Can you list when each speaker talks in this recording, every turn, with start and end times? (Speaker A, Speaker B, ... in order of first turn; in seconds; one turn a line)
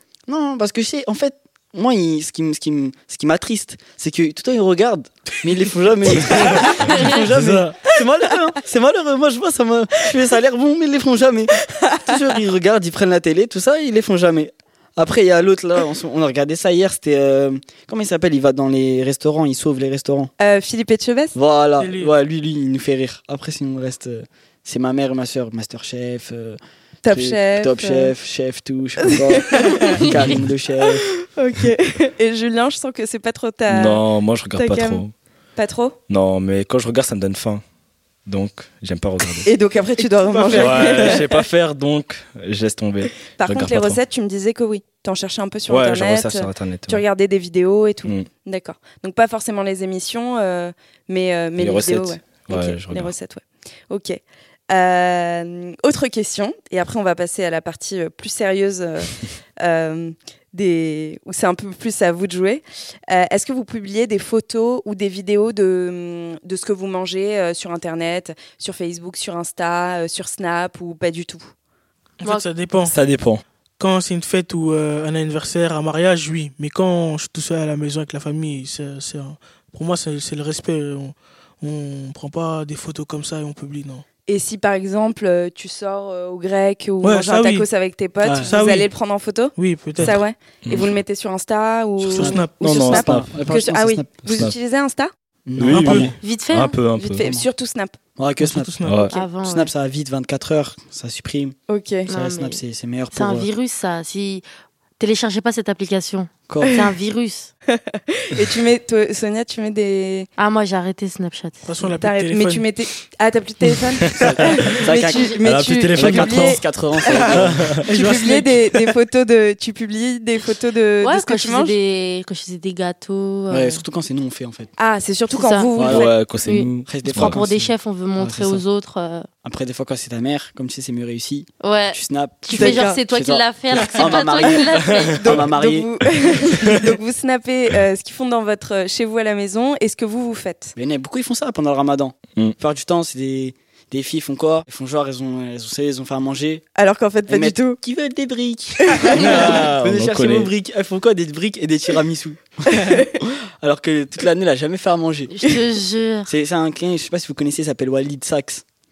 Speaker A: 0.3-20.3
Speaker B: 7.4-7.6
Speaker C: 11.8-12.2
Speaker C: 20.4-21.4
Speaker A: 21.3-31.1
Speaker D: 21.8-22.1
Speaker C: 27.0-28.1
Speaker C: 29.0-30.1
Speaker C: 30.8-35.0
Speaker B: 33.7-35.1
Speaker C: 35.5-36.0
Speaker B: 36.1-37.6
Speaker B: 38.2-39.5
Speaker C: 39.4-41.5
Speaker D: 40.4-41.2
Speaker B: 40.4-44.0
Speaker C: 43.2-54.2
Speaker B: 45.7-47.0
Speaker B: 51.6-53.1
Speaker C: 54.7-71.5
Speaker D: 72.2-73.0
Speaker B: 72.9-73.4
Speaker D: 73.8-84.0
Speaker C: 84.3-95.1
Speaker D: 87.0-87.7
Speaker D: 88.2-88.9
Speaker D: 89.5-90.2
Speaker B: 90.6-91.0
Speaker D: 92.1-93.0
Speaker A: 92.2-94.5
Speaker B: 92.6-93.3
Speaker B: 94.3-94.5
Speaker A: 95.5-96.1
Speaker B: 95.6-97.3
Speaker D: 95.7-96.2
Speaker E: 96.2-96.8
Speaker C: 96.9-98.0
Speaker A: 97.2-97.5
Speaker A: 98.2-101.6
Speaker D: 98.4-99.1
Speaker B: 98.8-99.1
Speaker E: 99.1-99.7
Speaker C: 101.7-102.1
Speaker E: 102.1-104.4
Speaker A: 102.1-103.5
Speaker E: 105.0-107.5
Speaker A: 106.5-106.8
Speaker C: 107.7-110.3
Speaker E: 110.4-111.7
Speaker D: 111.6-112.7
Speaker C: 112.0-117.4
Speaker B: 114.0-114.4
Speaker A: 114.2-117.8
Speaker E: 115.0-115.4
Speaker B: 115.4-116.6
Speaker B: 117.4-117.8
Speaker D: 117.8-118.7
Speaker C: 117.9-121.8
Speaker E: 121.0-123.8
Speaker A: 123.5-124.7
Speaker C: 124.8-126.2
Speaker E: 125.3-125.7
Speaker A: 125.8-126.1
Speaker B: 125.8-127.4
Speaker E: 126.4-129.3
Speaker A: 126.8-128.6
Speaker A: 129.4-135.9
Speaker E: 131.6-135.2
Speaker C: 132.5-133.0
Speaker C: 135.1-140.7
Speaker A: 140.7-146.6
Speaker C: 146.8-147.8
Speaker A: 147.3-155.6
Speaker C: 148.8-149.5
Speaker B: 149.1-150.5
Speaker C: 152.7-153.1
Speaker E: 155.3-156.3
Speaker A: 156.2-158.6